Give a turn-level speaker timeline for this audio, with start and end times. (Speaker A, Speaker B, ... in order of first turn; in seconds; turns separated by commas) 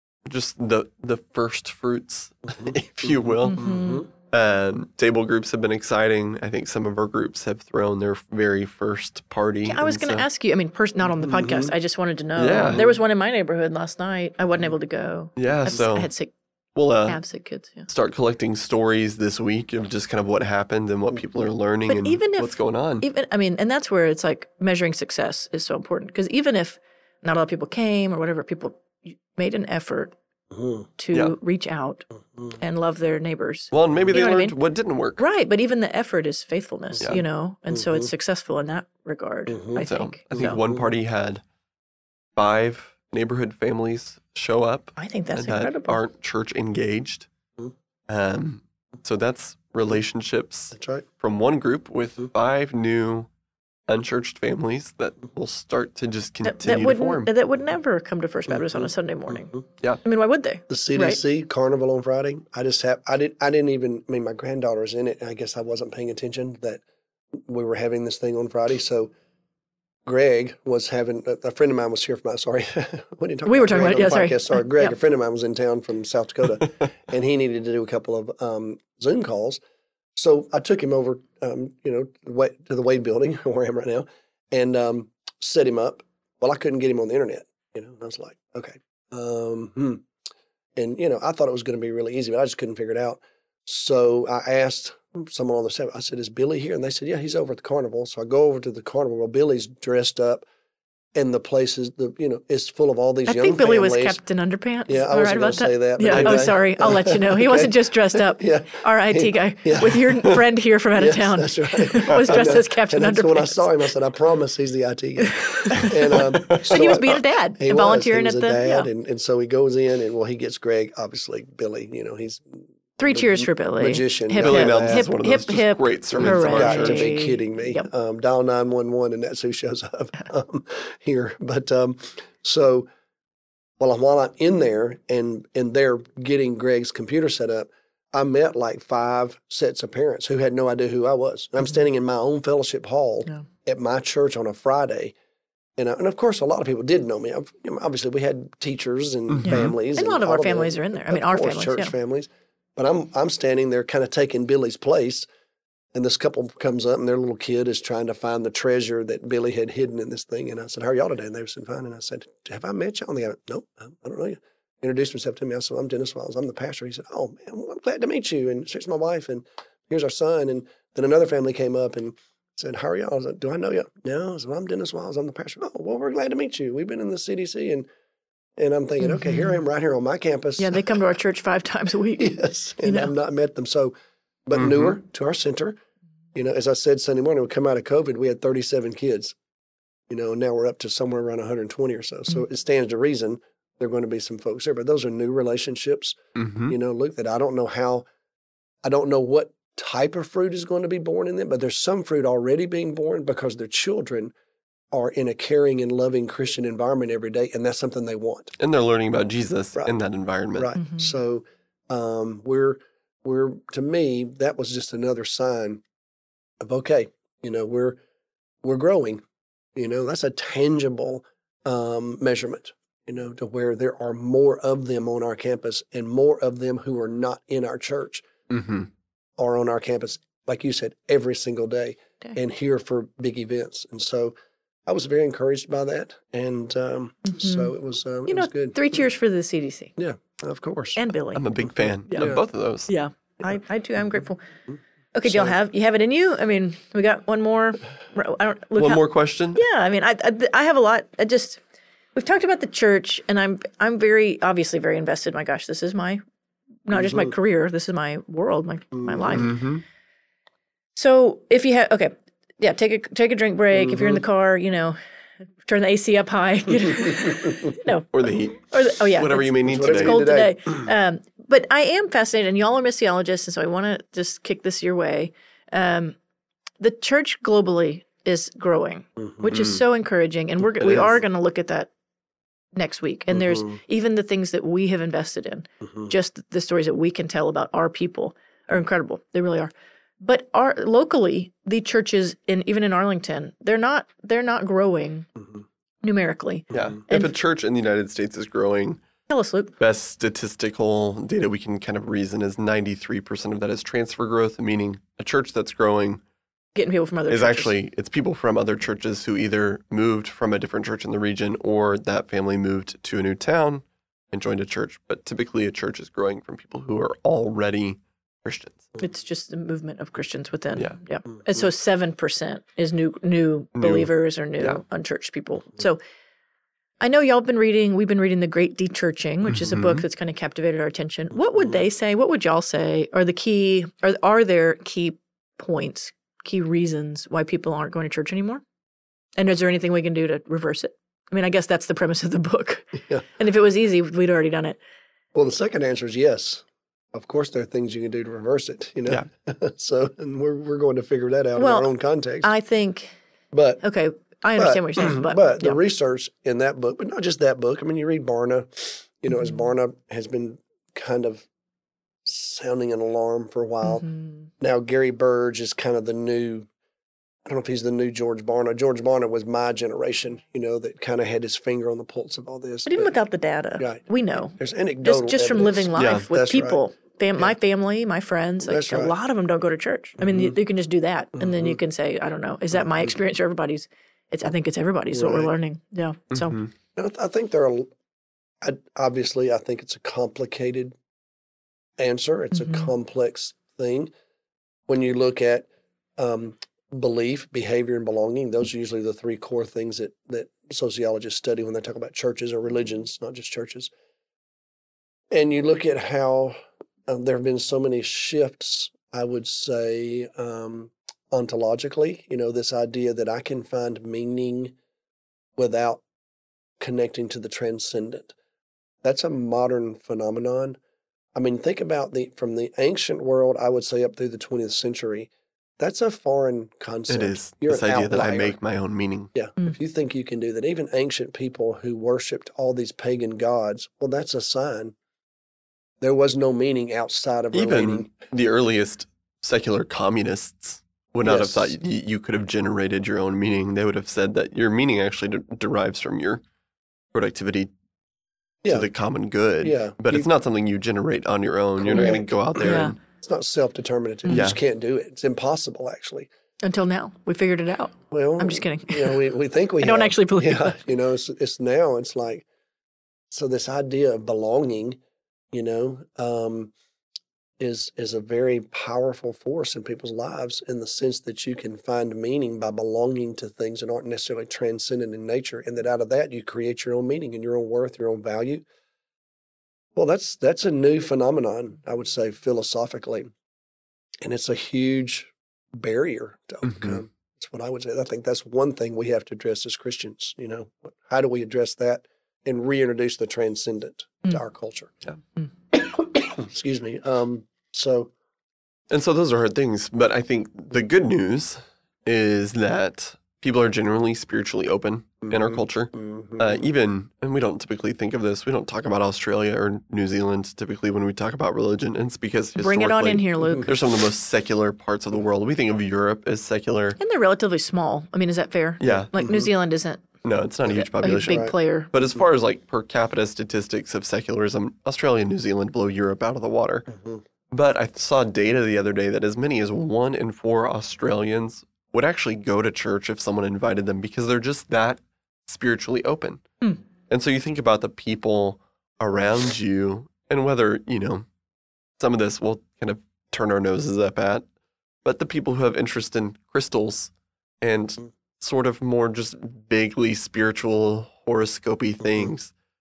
Speaker A: 0.3-10.3, Speaker B: 3.5-4.1, Speaker C: 3.6-4.0, Speaker B: 9.7-16.3, Speaker C: 11.2-11.7, Speaker A: 12.4-12.8, Speaker A: 15.4-16.1, Speaker A: 16.8-17.2, Speaker B: 17.1-17.9, Speaker A: 17.9-23.1, Speaker B: 21.9-30.1, Speaker C: 30.5-30.9, Speaker B: 31.0-34.6, Speaker A: 33.7-35.2, Speaker B: 35.2-40.6, Speaker C: 37.7-38.1, Speaker C: 39.5-39.8, Speaker A: 39.8-41.4, Speaker C: 40.4-40.8, Speaker A: 42.4-47.3, Speaker B: 45.0-46.0, Speaker A: 48.1-53.3, Speaker C: 50.7-51.0, Speaker A: 53.9-57.3, Speaker B: 56.4-61.2, Speaker C: 60.7-66.8, Speaker C: 67.4-69.1, Speaker C: 70.1-79.6, Speaker B: 73.5-74.9, Speaker C: 80.2-90.1, Speaker C: 90.8-100.5, Speaker C: 101.2-104.2, Speaker B: 103.3-113.7, Speaker C: 104.9-110.4, Speaker A: 106.1-106.6, Speaker C: 111.0-125.1, Speaker B: 115.2-118.9, Speaker A: 115.8-117.0, Speaker B: 123.0-127.9, Speaker A: 124.4-127.1, Speaker C: 126.1-132.9, Speaker C: 133.8-145.2, Speaker C: 145.8-155.3, Speaker A: 149.3-149.7, Speaker B: 149.5-151.9, Speaker C: 155.9-177.9, Speaker C: 178.6-181.0, Speaker B: 179.0-179.6, Speaker B: 180.6-183.1, Speaker C: 182.2-183.9, Speaker C: 184.5-185.8, Speaker A: 184.6-184.9, Speaker C: 186.3-189.4, Speaker C: 190.1-198.1, Speaker A: 196.4-196.8, Speaker C: 198.8-204.3, Speaker C: 204.9-208.5, Speaker A: 208.6-210.7, Speaker C: 210.6-215.8, Speaker B: 210.8-211.2, Speaker C: 216.6-218.0, Speaker C: 218.6-219.2, Speaker C: 219.8-228.3, Speaker A: 228.5-228.9, Speaker C: 229.4-234.3, Speaker C: 234.9-238.8, Speaker B: 237.2-237.7, Speaker B: 238.3-239.9, Speaker C: 240.0-241.0, Speaker B: 241.0-241.4, Speaker A: 241.3-242.9, Speaker B: 242.1-244.4, Speaker C: 242.2-242.4, Speaker B: 245.2-249.0, Speaker C: 245.3-245.6, Speaker A: 248.8-249.6, Speaker B: 249.6-251.6, Speaker B: 252.2-256.2, Speaker B: 256.9-259.6, Speaker C: 259.0-259.4, Speaker A: 259.3-259.8, Speaker B: 260.9-265.0, Speaker B: 265.6-276.2, Speaker A: 268.1-270.2, Speaker C: 269.6-270.8, Speaker B: 276.8-281.9, Speaker A: 279.5-279.8, Speaker B: 282.8-295.3, Speaker B: 296.0-297.3, Speaker A: 296.7-299.0, Speaker B: 299.3-299.7, Speaker A: 299.8-306.2, Speaker B: 306.8-307.7, Speaker A: 307.3-318.9, Speaker B: 319.0-326.0, Speaker A: 323.8-324.8, Speaker B: 327.0-338.6, Speaker A: 329.5-330.0, Speaker B: 339.4-344.8, Speaker C: 345.3-352.5, Speaker B: 351.6-351.9, Speaker B: 352.4-353.2, Speaker C: 353.5-353.8, Speaker B: 353.8-355.8, Speaker C: 354.6-361.5, Speaker B: 359.3-359.6, Speaker C: 362.2-364.1, Speaker B: 363.9-364.5, Speaker C: 364.6-366.7, Speaker C: 367.5-373.1, Speaker B: 372.9-386.6, Speaker C: 373.8-376.8, Speaker A: 376.0-376.2, Speaker C: 378.6-379.1, Speaker C: 381.4-381.8, Speaker C: 382.8-383.1, Speaker C: 385.1-385.5, Speaker A: 386.4-386.7, Speaker C: 387.0-387.9, Speaker C: 388.6-391.0, Speaker C: 392.0-394.1, Speaker B: 392.5-392.9, Speaker C: 394.9-403.9, Speaker C: 405.3-414.8, Speaker C: 415.6-416.0, Speaker C: 416.8-418.4, Speaker C: 419.0-420.8, Speaker C: 421.4-428.6, Speaker A: 427.1-429.3, Speaker C: 429.3-434.9, Speaker C: 436.0-438.1, Speaker A: 437.5-446.4, Speaker C: 441.2-441.7, Speaker A: 447.1-447.7, Speaker A: 448.7-453.0, Speaker C: 449.6-450.3, Speaker C: 451.8-456.3, Speaker B: 451.9-452.9, Speaker A: 454.3-454.6, Speaker B: 456.6-459.2, Speaker C: 458.1-462.4, Speaker B: 459.8-460.8, Speaker C: 463.3-465.0, Speaker C: 465.5-466.7, Speaker C: 467.6-478.7, Speaker C: 480.0-483.3, Speaker C: 484.2-494.9, Speaker A: 486.7-487.0, Speaker C: 495.7-498.1, Speaker A: 498.9-517.0, Speaker C: 505.3-506.6, Speaker B: 512.6-513.7, Speaker B: 517.0-520.1, Speaker A: 518.8-519.1, Speaker C: 519.1-519.5, Speaker A: 520.2-526.9, Speaker B: 521.0-521.9, Speaker C: 521.3-521.5, Speaker C: 526.9-527.2, Speaker A: 527.5-536.6, Speaker A: 537.1-541.3, Speaker A: 542.0-544.5, Speaker A: 545.0-547.1, Speaker A: 547.6-552.5